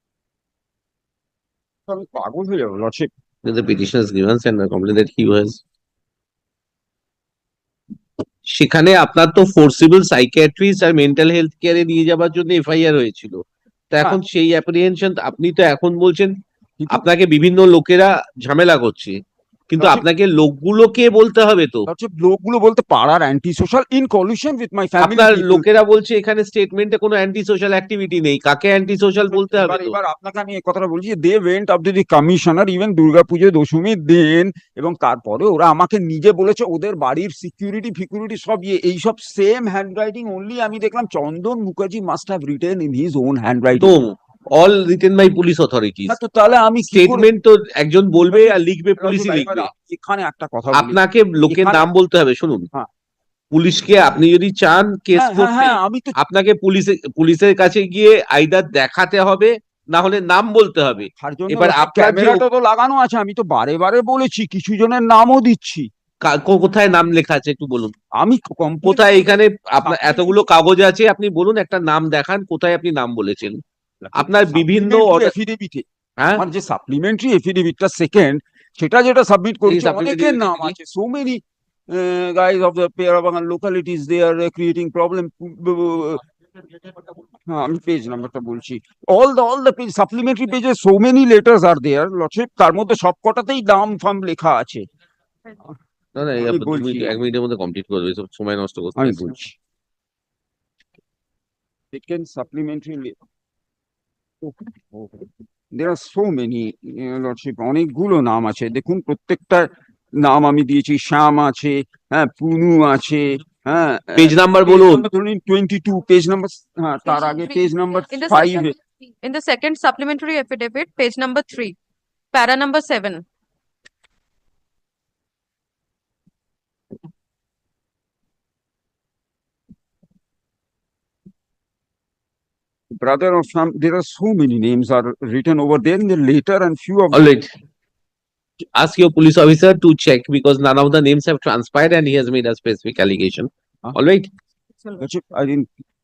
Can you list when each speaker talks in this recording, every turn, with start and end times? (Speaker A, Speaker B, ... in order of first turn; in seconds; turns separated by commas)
Speaker A: 1.9-3.1, Speaker B: 3.4-5.6, Speaker B: 8.5-13.4, Speaker B: 13.9-16.3, Speaker A: 16.8-17.0, Speaker B: 16.9-19.1, Speaker B: 19.7-21.9, Speaker A: 19.8-20.0, Speaker A: 21.9-25.6, Speaker B: 25.0-29.9, Speaker A: 29.3-43.9, Speaker B: 43.8-46.2, Speaker A: 46.1-47.3, Speaker B: 46.9-49.7, Speaker A: 48.3-51.0, Speaker B: 50.7-52.7, Speaker A: 51.5-51.8, Speaker B: 53.5-62.4, Speaker A: 55.1-56.1, Speaker A: 61.2-65.9, Speaker B: 66.2-67.9, Speaker A: 68.2-69.2, Speaker B: 68.8-73.6, Speaker A: 69.8-70.3, Speaker A: 74.0-75.8, Speaker B: 74.2-75.3, Speaker B: 76.2-76.4, Speaker A: 76.3-86.2, Speaker B: 79.7-80.8, Speaker A: 87.5-94.8, Speaker B: 96.1-99.3, Speaker A: 96.4-97.1, Speaker A: 99.0-99.5, Speaker A: 101.9-103.2, Speaker A: 104.4-109.7, Speaker A: 110.2-118.7, Speaker B: 114.2-115.0, Speaker C: 117.0-121.8, Speaker C: 122.3-123.2, Speaker A: 132.9-137.2, Speaker B: 137.1-137.5, Speaker B: 138.7-144.3, Speaker A: 145.0-145.7